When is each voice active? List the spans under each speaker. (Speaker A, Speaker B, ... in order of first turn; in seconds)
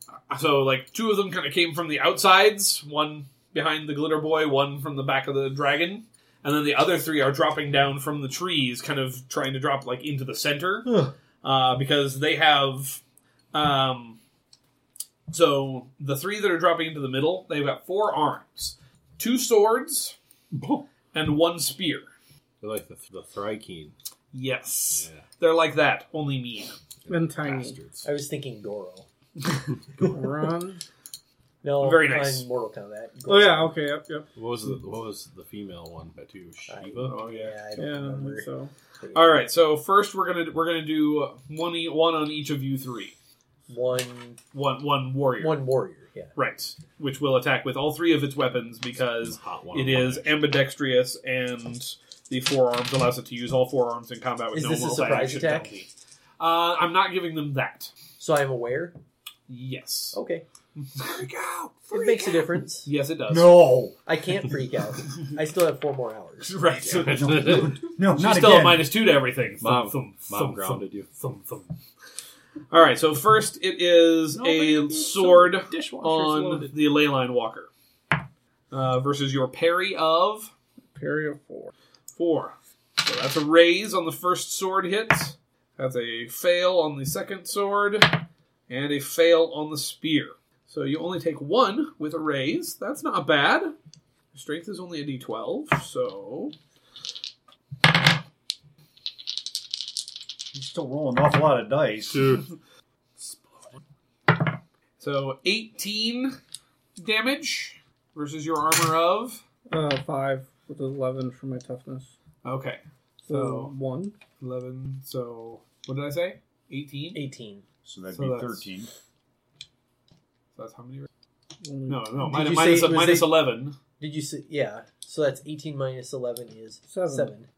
Speaker A: 0.3-10.9, 11.4-13.0, 13.5-14.2, 15.3-20.1, 21.1-22.1, 24.3-26.8, 31.8-32.5, 37.0-37.5, 39.1-43.1, 44.5-45.6, 46.4-57.9, 59.5-60.2, 60.8-63.8, 66.4-71.7, 72.7-77.7, 78.7-80.5, 82.1-93.7, 94.3-96.5, 105.0-106.4, 107.0-109.4, 112.4-113.7, 114.4-117.2, 118.1-118.6, 120.5-121.1, 121.9-123.8
Speaker B: 20.5-20.8, 22.6-23.9, 24.9-25.2, 27.1-28.1, 34.4-37.2, 49.2-50.4, 66.8-67.7, 69.6-71.1, 74.3-76.7, 102.1-102.5, 103.2-103.7
Speaker C: 27.1-27.8, 30.1-30.8, 33.3-34.3, 37.8-38.7, 80.9-81.7, 109.7-112.1, 113.3-114.1, 121.6-122.1, 126.9-127.3
Speaker D: 28.0-29.1, 31.6-33.7, 36.7-38.5, 39.0-39.5, 43.7-44.4, 45.4-46.3, 54.5-55.7, 58.2-59.0, 60.1-60.4, 61.9-62.9, 64.0-66.6, 117.1-117.6, 122.2-123.4, 124.0-127.5
Speaker E: 63.3-64.0, 66.9-68.9, 100.5-102.4, 117.8-118.9